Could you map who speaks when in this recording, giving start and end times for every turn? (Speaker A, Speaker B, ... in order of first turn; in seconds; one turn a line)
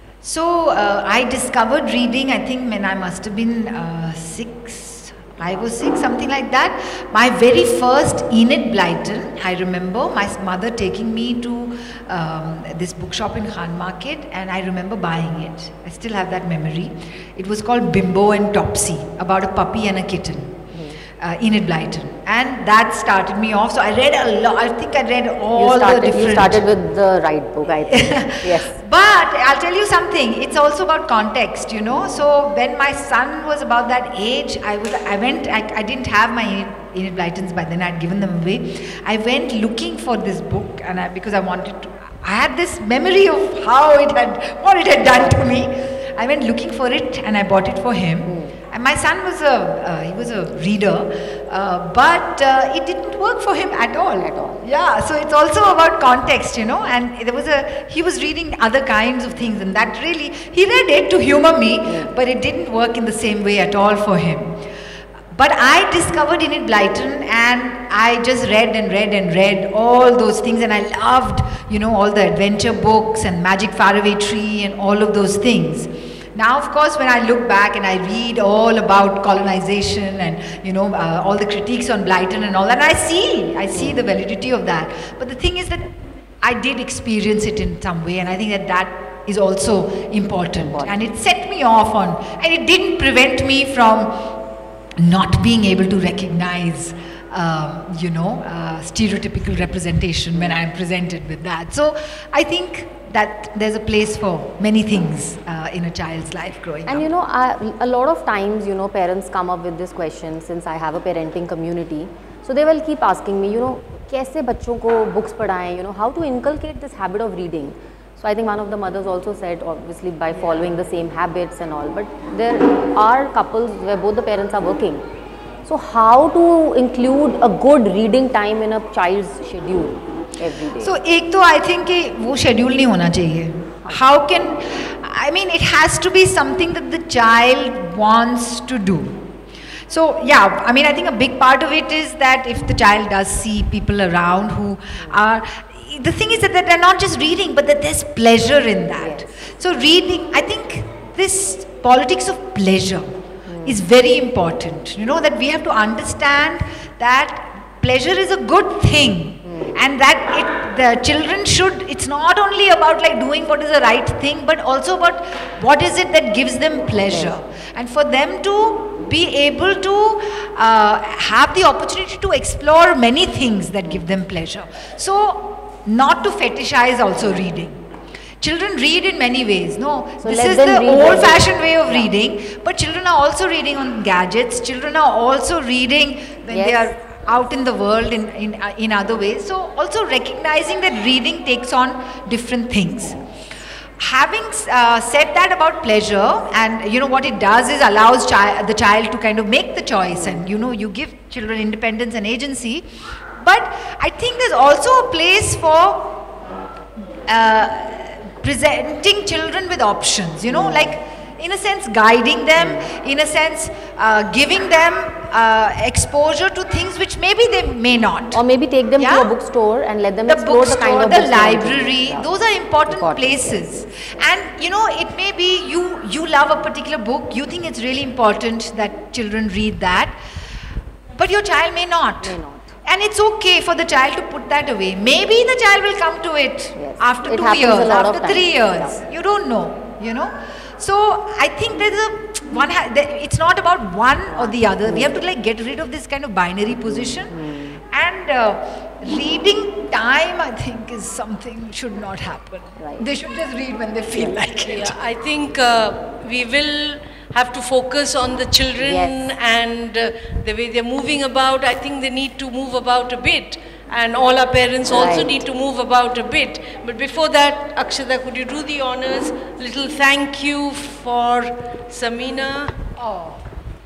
Speaker A: 0.2-26.7
Speaker B: 20.7-21.0
Speaker B: 25.6-28.8
Speaker A: 27.9-64.6
Speaker B: 45.0-45.5
Speaker B: 48.2-48.6
Speaker B: 54.2-54.6
Speaker B: 61.8-62.1
Speaker A: 65.3-94.4
Speaker B: 83.7-84.1
Speaker B: 90.6-91.0
Speaker A: 95.0-107.1
Speaker B: 100.3-100.6
Speaker B: 106.9-125.0
Speaker B: 125.7-131.0
Speaker A: 130.8-139.2
Speaker B: 133.8-134.0
Speaker A: 139.9-153.1
Speaker B: 149.0-149.4
Speaker B: 153.5-153.8
Speaker A: 153.6-177.8
Speaker B: 159.4-159.8
Speaker B: 167.1-167.4
Speaker B: 173.8-174.1
Speaker A: 178.4-193.2
Speaker B: 180.2-182.1
Speaker B: 186.5-186.9
Speaker A: 194.0-202.9
Speaker B: 200.1-200.4
Speaker A: 203.4-206.2
Speaker A: 207.3-218.4
Speaker B: 210.5-211.0
Speaker B: 212.6-212.9
Speaker B: 218.3-222.3
Speaker A: 219.0-219.3
Speaker A: 220.2-230.2
Speaker B: 222.9-224.1
Speaker A: 231.2-247.3
Speaker B: 232.2-232.8
Speaker B: 236.8-239.0
Speaker B: 244.3-245.2
Speaker B: 246.8-247.8
Speaker A: 247.9-255.0
Speaker B: 252.8-253.1
Speaker C: 254.6-272.8
Speaker B: 258.8-259.3
Speaker B: 264.9-265.4
Speaker A: 273.0-273.4